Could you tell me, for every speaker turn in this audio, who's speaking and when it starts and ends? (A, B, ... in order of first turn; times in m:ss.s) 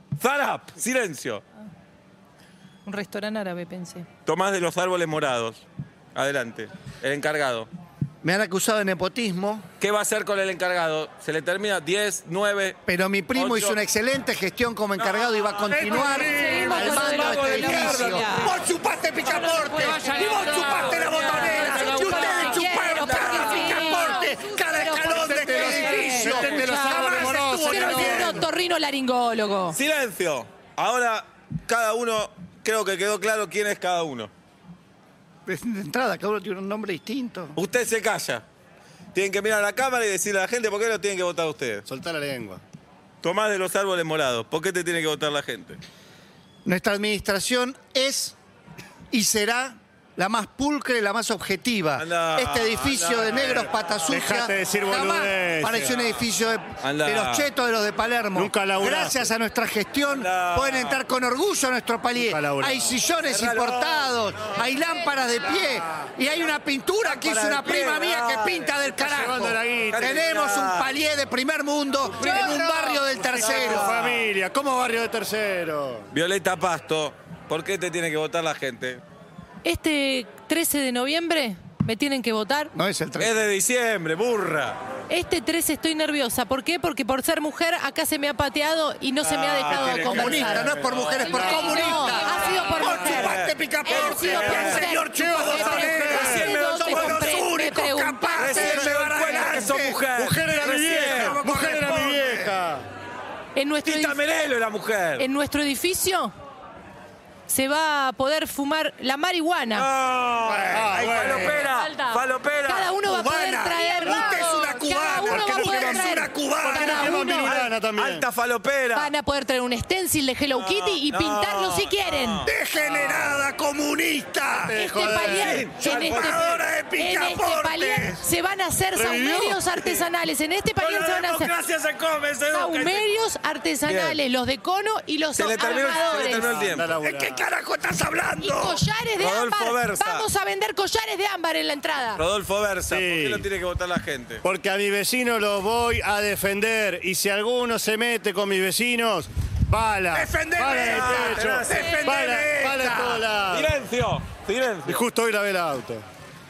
0:00.2-0:01.4 A
0:02.9-0:04.1 B
0:04.3-0:05.6 A
0:06.1-0:07.7 A
0:08.2-0:09.6 C
0:09.8-0:12.8 A
0:12.9-0:28.5 C
0:13.4-0:13.8 A
0:15.0-0:15.5 A
0:15.6-0:18.2 D
0:15.9-0:18.6 B
0:17.0-0:18.5 A
0:19.2-0:29.8 B
0:19.7-0:22.2 D
0:22.9-0:24.0 A
0:25.1-0:28.5 D
0:29.7-0:34.3 A
0:35.5-0:37.6 C
0:37.6-0:38.4 A
0:39.1-0:41.8 A
0:41.9-0:42.6 D
0:43.2-0:45.8 A
0:46.6-0:48.4 C
0:49.1-1:14.0 C
0:52.0-0:53.5 A
0:54.1-0:56.0 D
0:56.8-0:57.5 A
0:58.4-0:59.3 D
1:00.1-1:01.0 A
1:02.2-1:03.0 D
1:03.2-1:04.4 A
1:07.0-1:08.7 A
1:08.8-1:10.3 D
1:09.9-1:10.9 A
1:12.1-1:16.1 D
1:12.2-1:12.6 B
1:13.8-1:14.2 A
1:16.1-1:19.0 A
1:19.6-1:22.7 B
1:22.8-1:23.3 C
1:23.2-1:24.8 A
1:25.1-1:38.5 B
1:29.2-1:31.8 A
1:29.8-1:33.0 D
1:30.0-1:42.5 C
1:32.6-1:34.9 A
1:35.1-1:36.5 D
1:36.0-1:37.4 A
1:38.4-1:41.4 A
1:38.5-1:39.0 D
1:40.2-1:42.9 D
1:43.6-1:44.2 B
1:43.8-1:45.2 A
1:45.2-1:46.3 B
1:47.5-1:49.9 B
1:49.7-1:53.0 A
1:50.7-1:51.7 D
1:51.4-1:57.5 B
1:53.1-1:57.4 C
1:54.0-1:58.3 D
1:57.4-1:59.1 A
1:58.9-2:02.4 B
2:00.6-2:03.3 A
2:02.5-2:04.7 C
2:04.7-2:05.7 D
2:04.7-2:11.5 B
2:05.2-2:06.7 A
2:06.1-2:08.2 C
2:09.0-2:09.6 D
2:10.8-2:13.0 A
2:12.5-2:16.5 B
2:13.9-2:14.2 A
2:15.4-2:17.0 A
2:16.1-2:17.5 D
2:17.0-2:18.8 C
2:18.4-2:22.2 B
2:19.2-2:20.2 A
2:22.2-2:24.4 A
2:22.9-2:23.5 D
2:24.4-2:33.8 D
2:30.1-2:33.2 C
2:30.7-2:32.0 A
2:31.7-2:32.1 B
2:33.5-2:35.0 A
2:34.8-2:36.0 D